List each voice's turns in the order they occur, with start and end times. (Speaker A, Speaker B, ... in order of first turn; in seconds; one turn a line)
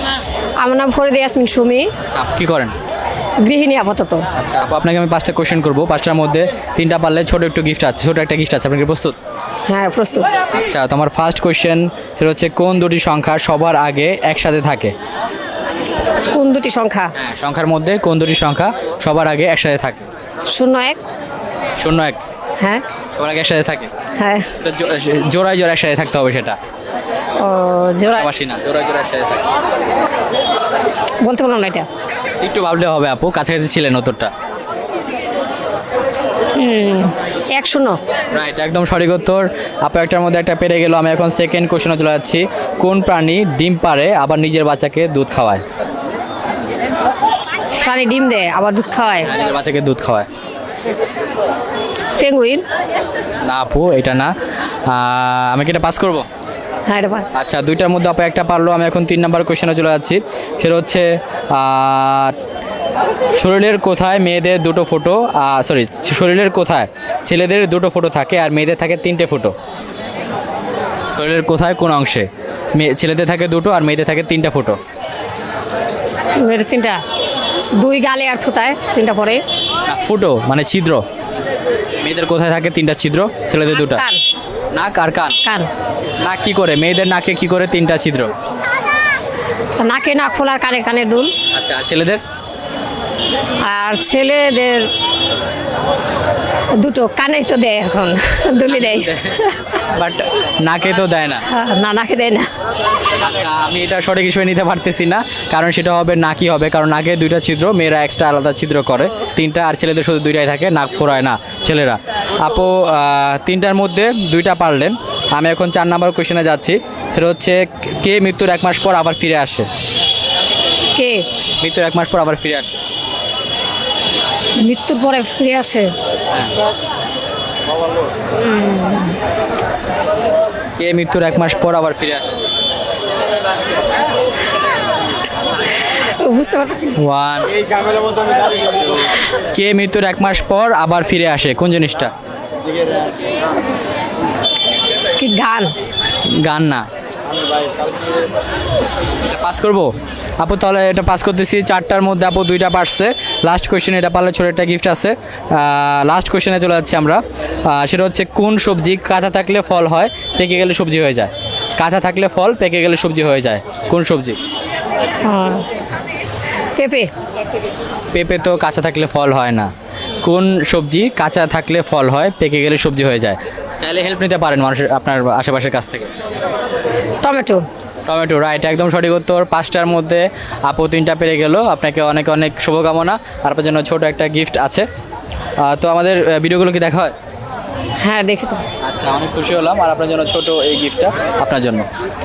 Speaker A: 0.6-1.9
Speaker B: 2.1-2.7
Speaker A: 3.4-4.3
Speaker B: 4.3-9.2
Speaker A: 9.7-10.3
Speaker B: 10.5-14.9
Speaker A: 16.3-17.1
Speaker B: 17.1-20.1
Speaker A: 20.5-21.0
Speaker B: 21.8-22.2
Speaker B: 23.1-23.9
Speaker A: 24.2-24.5
Speaker B: 24.6-26.6
Speaker A: 27.4-28.3
Speaker B: 28.1-29.4
Speaker A: 31.2-31.9
Speaker B: 32.4-34.3
Speaker A: 36.5-38.0
Speaker B: 38.3-45.6
Speaker A: 47.8-49.3
Speaker B: 49.2-50.3
Speaker A: 52.2-52.6
Speaker B: 53.4-54.3
Speaker B: 54.9-56.2
Speaker A: 56.9-57.3
Speaker B: 57.3-62.3
Speaker B: 63.4-69.5
Speaker B: 71.1-74.8
Speaker A: 76.4-77.0
Speaker A: 77.8-79.4
Speaker B: 79.9-81.0
Speaker B: 82.0-84.0
Speaker A: 83.7-84.2
Speaker B: 84.7-85.4
Speaker A: 85.4-85.7
Speaker B: 86.2-88.3
Speaker A: 89.8-91.3
Speaker B: 91.5-92.2
Speaker A: 93.6-94.9
Speaker A: 96.8-99.7
Speaker B: 98.7-101.4
Speaker A: 101.5-102.5
Speaker B: 103.2-119.7
Speaker A: 120.9-121.2
Speaker B: 121.6-122.8
Speaker A: 124.6-125.9
Speaker A: 128.3-129.2
Speaker B: 130.8-132.3
Speaker A: 135.8-137.0
Speaker B: 137.0-137.5
Speaker B: 139.4-142.1
Speaker A: 145.2-145.7
Speaker B: 146.4-146.8
Speaker B: 149.2-164.4
Speaker A: 165.2-165.6
Speaker A: 166.8-167.1
Speaker B: 168.1-169.7
Speaker B: 170.2-176.1
Speaker A: 177.2-177.6
Speaker B: 178.1-184.9
Speaker B: 185.6-187.1
Speaker A: 188.0-188.6
Speaker B: 188.8-191.8